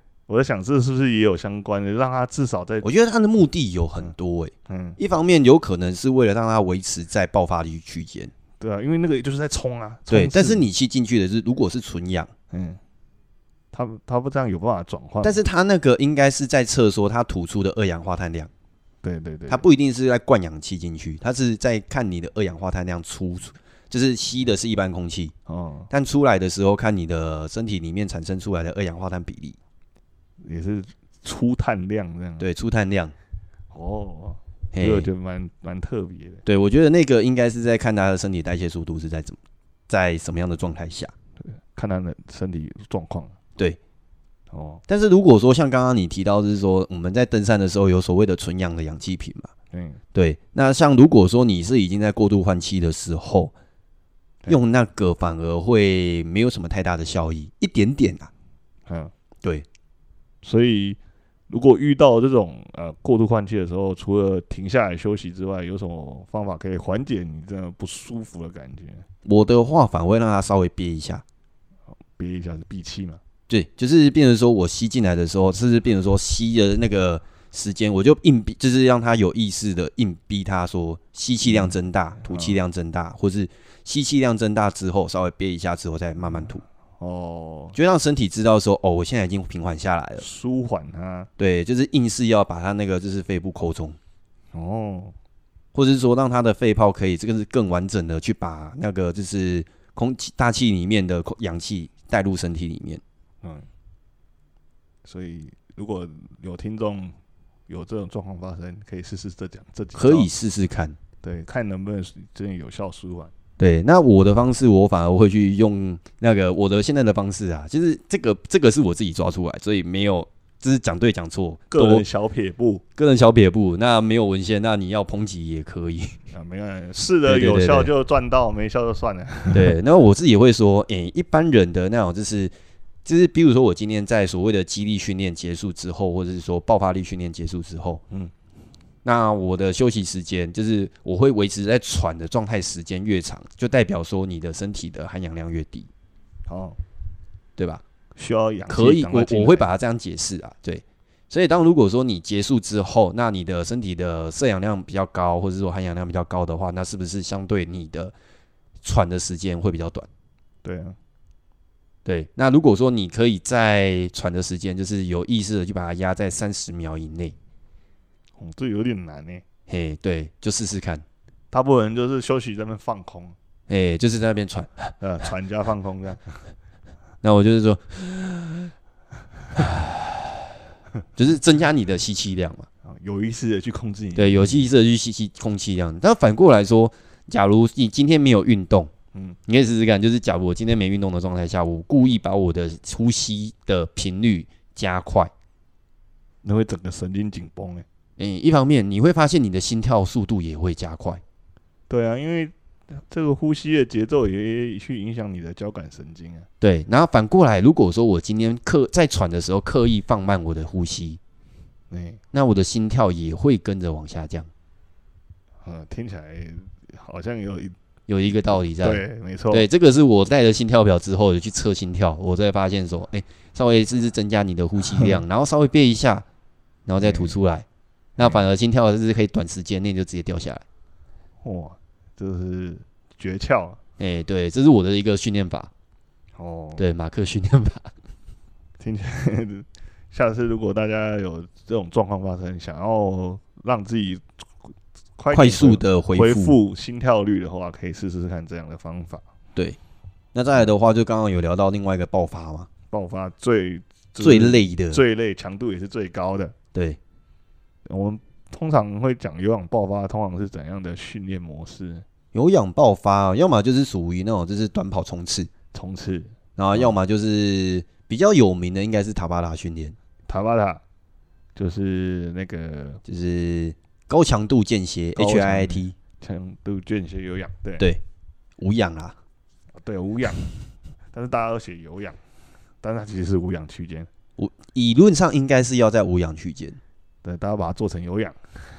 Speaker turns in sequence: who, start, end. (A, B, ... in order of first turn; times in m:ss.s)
0:00.3-0:02.9 A
0:02.8-0:08.3 B
0:04.7-0:05.0 A
0:08.6-0:10.6 A
0:10.1-0:12.3 B
0:12.5-0:12.8 A
0:13.7-0:15.4 A
0:15.2-0:18.5 B
0:19.0-0:19.6 A
0:19.5-0:25.3 B
0:25.5-0:25.9 A
0:25.9-0:29.6 B
0:30.4-0:32.5 A
0:32.4-0:33.1 B
0:33.7-0:36.4 A
0:34.7-0:35.1 B
0:36.4-0:41.1 B
0:41.4-0:43.4 A
0:44.5-0:44.8 A
0:44.9-0:49.5 B
0:49.7-0:50.0 A
0:50.1-0:53.5 B
0:54.5-0:58.3 B
0:58.9-0:59.1 A
1:00.4-1:09.0 A
1:09.2-1:11.2 B
1:12.2-1:13.2 A
1:13.5-1:26.6 B
1:21.4-1:22.6 A
1:27.0-1:27.8 A
1:27.7-1:30.2 B
1:30.2-1:31.3 A
1:31.4-1:34.0 B
1:34.5-1:35.1 A
1:35.7-1:43.0 B
1:43.4-1:43.7 A
1:45.0-1:47.2 A
1:47.7-1:50.3 A
1:50.0-1:51.0 B
1:51.2-1:53.3 A
1:53.6-2:02.0 B
2:01.7-2:02.8 A
2:03.0-2:06.2 B
2:06.3-2:09.7 A
2:07.2-2:07.9 B
2:09.5-2:12.5 B
2:13.0-2:18.0 B
2:19.0-2:25.9 B
2:26.5-2:26.8 A
2:27.6-2:27.8 B
2:28.2-2:29.7 A
2:28.7-2:38.1 B
2:38.8-2:40.1 B
2:40.6-2:41.0 A
2:42.0-2:47.3 B
2:48.4-2:49.4 A
2:49.7-2:51.0 B
2:51.5-2:53.3 A
2:53.7-2:54.9 B
2:55.0-2:56.4 A
2:57.2-2:58.7 B
2:59.5-3:00.4 B
3:01.2-3:02.7 B
3:02.8-3:04.6 A
3:04.2-3:08.9 B
3:09.5-3:15.3 B
3:16.4-3:17.8 A
3:18.2-3:21.2 B
3:21.9-3:26.5 A
3:26.6-3:31.2 B
3:31.9-3:32.2 A
3:32.3-3:34.5 B
3:35.6-3:37.7 A
3:38.1-3:46.2 B
3:38.8-3:39.7 A
3:44.9-3:45.2 A
3:46.8-3:47.6 B
3:47.0-3:47.4 A
3:48.2-3:50.6 B
3:51.4-3:53.8 A
3:54.0-3:55.7 B
3:56.4-3:56.8 A
3:56.8-3:57.9 B
3:58.8-4:04.2 A
4:05.2-4:09.2 A
4:05.3-4:06.6 B
4:10.3-4:12.7 B
4:12.9-4:16.5 A
4:14.2-4:15.0 B
4:16.7-4:17.0 B
4:17.8-4:22.0 A
4:22.3-4:25.5 B
4:25.7-4:27.0 A
4:26.6-4:30.0 B
4:30.3-4:30.8 A
4:31.6-4:33.0 A
4:33.0-4:35.9 B
4:35.1-4:37.9 A
4:38.6-4:39.2 B
4:39.8-4:40.6 A
4:41.1-4:42.2 A
4:42.8-4:44.1 A
4:44.4-4:46.8 B
4:47.2-4:48.6 A